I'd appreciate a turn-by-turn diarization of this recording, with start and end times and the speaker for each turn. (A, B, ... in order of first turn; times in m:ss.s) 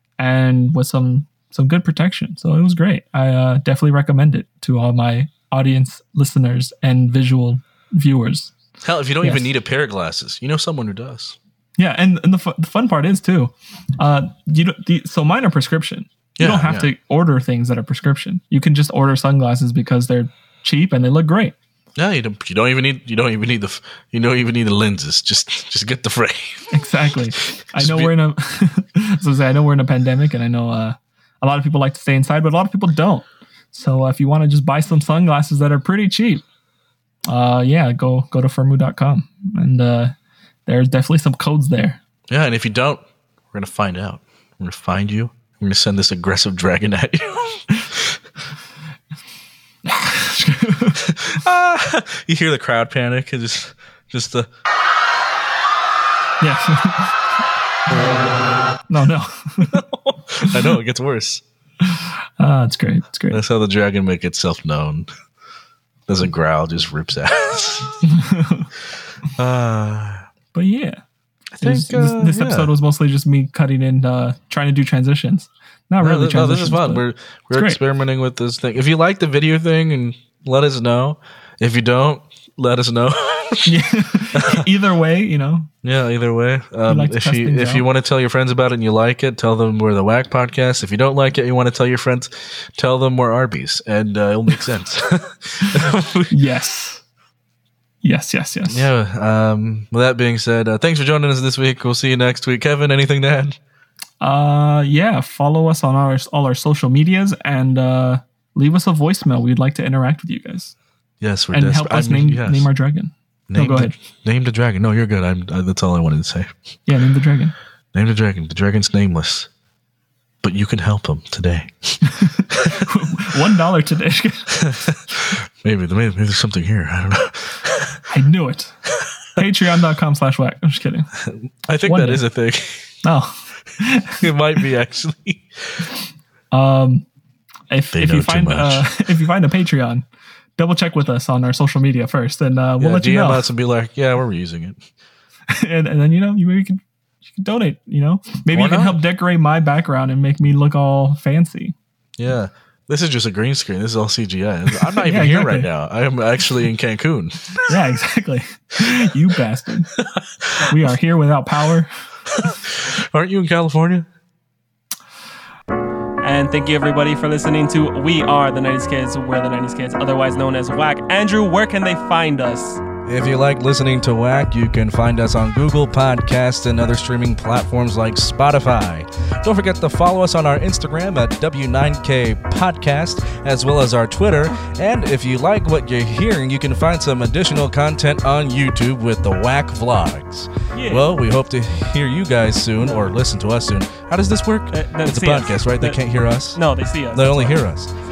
0:00.2-0:08.5 A
0:08.8-0:11.4 B
0:11.8-0:21.5 A
0:16.4-0:16.9 B
0:22.0-0:26.8 B
0:26.7-0:36.4 A
0:27.4-0:28.1 B
0:37.3-0:40.2 A
0:40.7-0:42.0 A
0:42.3-0:48.2 B
0:49.8-0:51.0 A
0:51.0-0:54.5 B
0:56.4-0:57.2 A
0:58.9-0:59.8 A
0:59.6-1:01.4 B
1:00.4-1:00.8 A
1:01.8-1:03.4 A
1:03.3-1:05.1 B
1:06.1-1:08.0 B
1:08.1-1:08.7 A
1:09.4-1:10.2 B
1:10.5-1:11.0 A
1:11.6-1:12.7 B
1:11.6-1:17.8 A
1:16.0-1:23.7 B
1:23.7-1:25.7 A
1:24.3-1:24.6 B
1:25.8-1:36.4 B
1:26.9-1:27.8 A
1:36.3-1:37.0 A
1:38.0-1:38.9 A
1:38.7-1:43.6 B
1:44.2-1:50.8 A
1:51.2-1:52.7 B
1:51.5-1:54.0 A
1:53.5-1:56.5 B
1:56.9-1:57.5 A
1:57.9-1:59.5 B
2:00.4-2:02.8 B
2:02.2-2:04.5 A
2:04.6-2:08.0 B
2:08.1-2:08.8 A
2:09.4-2:11.1 A
2:11.2-2:12.9 B
2:11.9-2:12.2 A
2:13.0-2:14.2 A
2:14.2-2:15.9 B
2:16.5-2:17.1 A
2:17.7-2:20.0 A
2:17.9-2:18.9 B
2:20.6-2:23.5 A
2:22.8-2:24.8 B
2:25.5-2:31.8 A
2:28.5-2:29.0 B
2:32.2-2:37.7 B
2:34.9-2:35.7 A
2:37.7-2:39.9 A
2:40.0-2:40.7 B
2:40.7-2:41.9 A
2:42.3-2:44.1 B
2:46.2-2:52.8 C
2:46.2-2:49.8 A
2:53.1-3:17.9 B
3:10.8-3:11.0 A
3:12.8-3:13.1 A
3:14.7-3:16.0 A
3:15.2-3:15.4 C
3:16.6-3:17.6 A